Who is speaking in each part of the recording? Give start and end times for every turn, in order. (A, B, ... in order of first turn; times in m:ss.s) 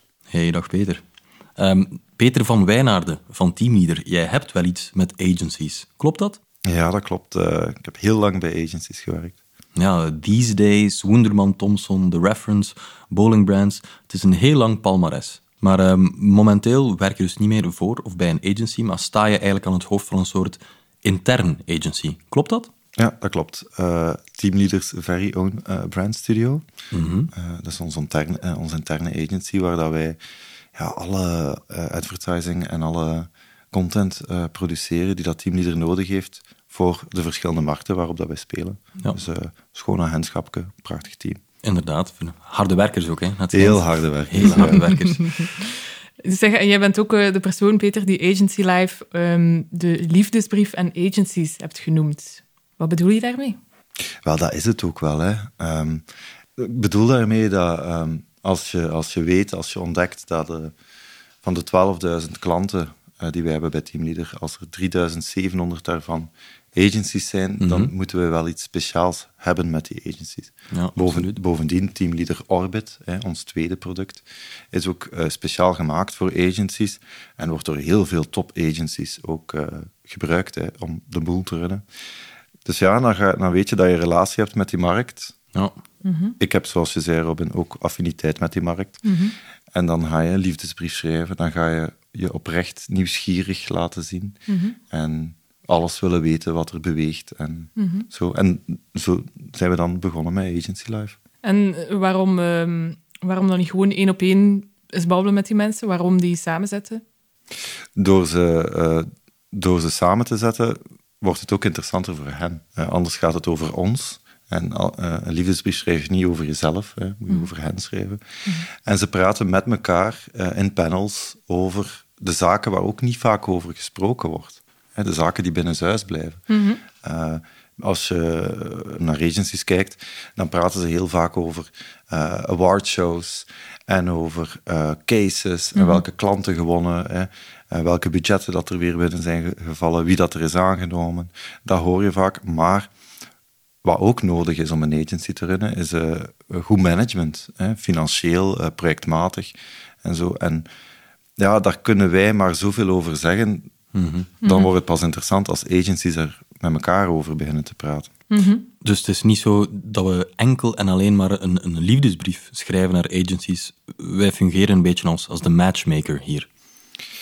0:00.3-0:01.0 A
0:01.6-0:06.4 A
0:06.7-0:09.4 B
0:09.8-0:22.7 A
0:23.0-0:26.6 B
0:26.9-0:27.3 A
0:27.3-0:30.2 B
0:30.8-0:41.4 B
0:41.6-0:45.5 A
0:43.5-0:44.8 B
0:46.2-0:53.6 C
0:54.2-0:56.0 B
0:56.6-1:00.7 B
1:01.4-1:21.8 B
1:07.6-1:07.9 A
1:10.7-1:11.4 A
1:22.6-1:25.4 B
1:26.0-1:26.4 C
1:26.4-1:29.0 B
1:29.0-1:29.4 C
1:29.7-1:34.4 B
1:34.5-1:34.8 C
1:34.9-1:41.2 B
1:37.8-1:38.1 C
1:41.4-1:47.0 C
1:48.0-2:06.4 B
2:06.5-2:06.8 C
2:07.0-2:22.9 B
2:15.8-2:16.0 C
2:23.8-2:30.7 B
2:31.4-2:33.7 B
2:33.9-2:34.3 A
2:34.4-2:34.7 C
2:34.4-2:38.1 B
2:38.3-2:38.7 C
2:38.8-2:46.5 A